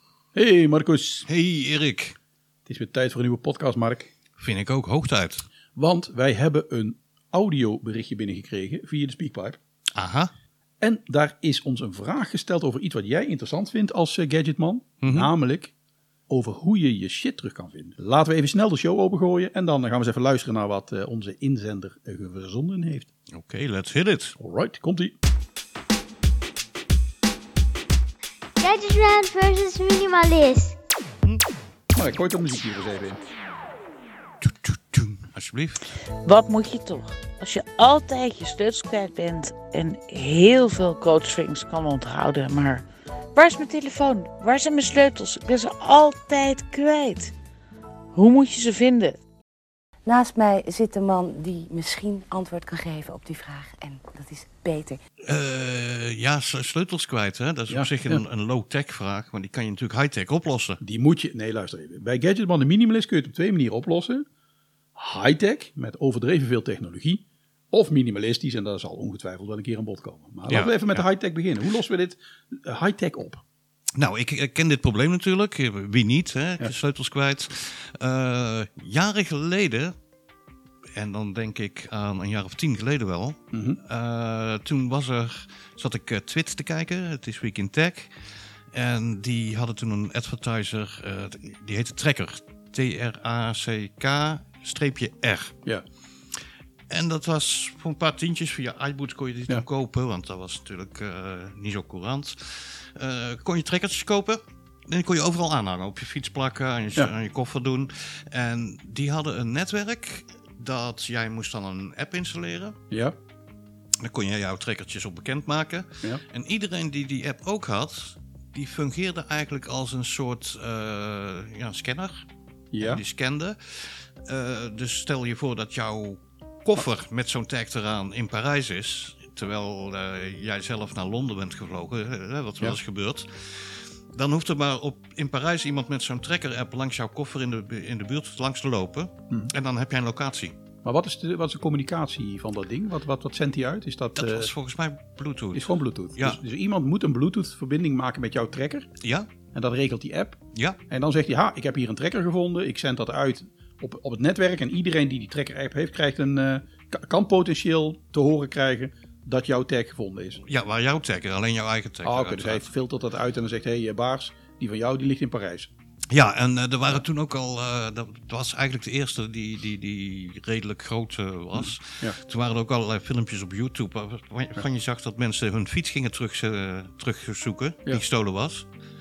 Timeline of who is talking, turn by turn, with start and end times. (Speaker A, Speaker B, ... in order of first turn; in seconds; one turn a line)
Speaker A: 0.3-1.3
Speaker B: 1.3-2.1
Speaker A: 2.7-4.1
Speaker B: 4.4-5.5
Speaker A: 5.8-9.6
Speaker B: 9.9-10.3
Speaker A: 10.8-15.7
Speaker B: 15.0-15.3
Speaker A: 16.3-23.1
Speaker B: 23.3-24.4
Speaker A: 24.4-25.2
Speaker C: 28.6-30.8
Speaker A: 31.9-33.2
Speaker B: 34.4-35.9
Speaker D: 36.2-42.8
Speaker D: 43.4-47.3
Speaker D: 48.1-49.2
Speaker E: 50.1-55.0
Speaker B: 55.2-60.8
Speaker A: 57.7-58.2
Speaker A: 60.8-64.2
Speaker A: 65.0-73.4
Speaker B: 70.5-71.0
Speaker B: 74.0-79.9
Speaker B: 81.0-88.1
Speaker A: 83.5-83.8
Speaker B: 88.7-95.6
Speaker B: 96.9-112.8
Speaker A: 112.9-113.2
Speaker B: 114.0-122.2
Speaker A: 122.7-123.0
Speaker B: 122.8-140.6
Speaker A: 140.8-144.5
Speaker B: 144.2-146.4
Speaker A: 145.5-148.9
Speaker B: 149.0-149.3
Speaker A: 149.5-150.4
Speaker B: 150.5-150.8
Speaker A: 150.9-160.4
Speaker B: 160.4-162.7
Speaker A: 162.0-165.7
Speaker B: 166.1-178.7